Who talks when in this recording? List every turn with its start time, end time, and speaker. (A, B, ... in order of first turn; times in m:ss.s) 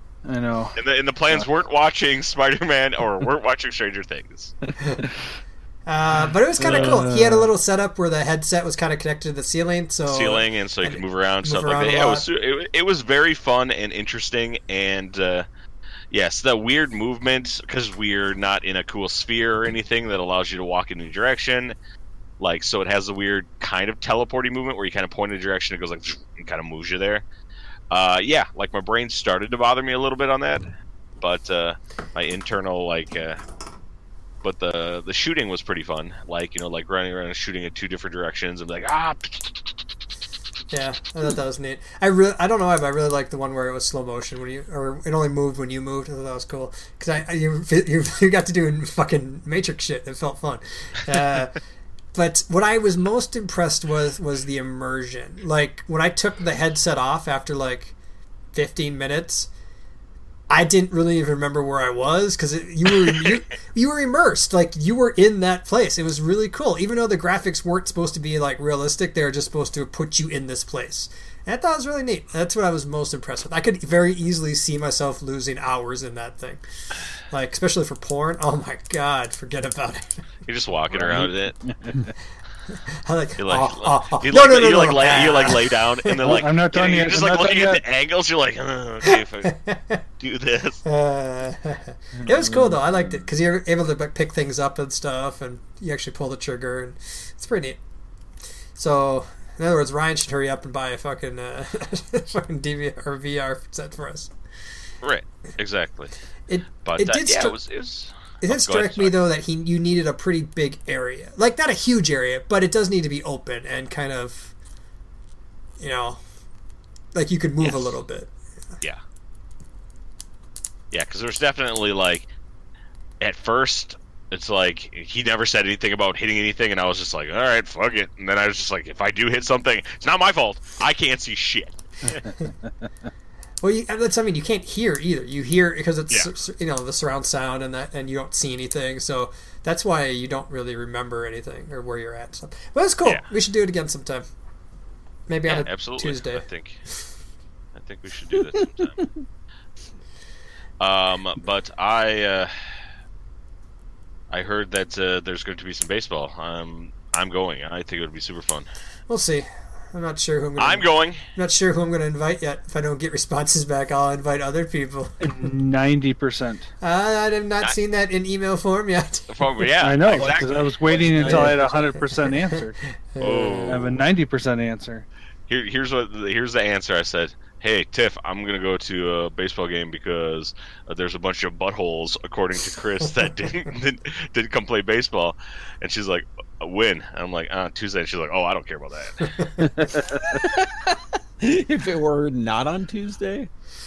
0:00.3-0:00.8 A
0:00.8-0:04.6 B
0:04.7-0:05.1 A
0:05.9-0:12.3 C
0:06.6-0:07.5 A
0:06.7-0:07.0 B
0:10.1-0:15.5 B
0:16.1-0:21.8 B
0:22.4-0:27.2 B
0:27.9-0:30.7 B
0:31.2-0:33.4 B
0:34.4-0:39.7 B
0:40.7-0:51.6 C
0:52.2-0:58.0 C
0:58.5-0:59.5 C
1:00.5-1:16.6 C
1:17.3-1:20.2 C
1:20.5-1:21.6 B
1:20.9-1:22.1 A
1:23.0-1:26.4 C
1:23.4-1:29.6 B
1:26.2-1:27.8 A
1:29.0-1:30.0 C
1:30.2-1:30.8 B
1:30.8-1:37.8 C
1:32.2-1:33.2 A
1:38.8-1:44.3 C
1:45.0-1:46.1 B
1:46.5-1:47.6 C
1:46.8-1:49.1 B
1:48.4-1:54.5 C
1:55.8-1:56.2 C
1:57.2-1:58.3 C
1:57.6-1:57.9 B
2:00.9-2:02.3 B
2:03.2-2:12.2 B
2:13.6-2:24.3 C
2:25.3-2:26.4 C
2:25.4-2:26.8 B
2:27.8-2:29.1 B
2:28.6-2:29.1 D
2:30.8-2:32.5 B
2:34.3-2:38.7 B
2:39.1-2:45.5 C
2:40.6-2:41.2 B
2:45.2-2:46.7 A
2:46.8-2:49.5 C
2:49.3-2:50.7 B
2:49.8-2:52.8 A
2:50.1-2:52.0 D
2:53.2-2:53.8 C
2:53.2-2:54.0 B
2:53.6-2:55.1 A
2:55.5-3:09.5 B
3:09.6-3:10.4 A
3:10.1-3:13.5 D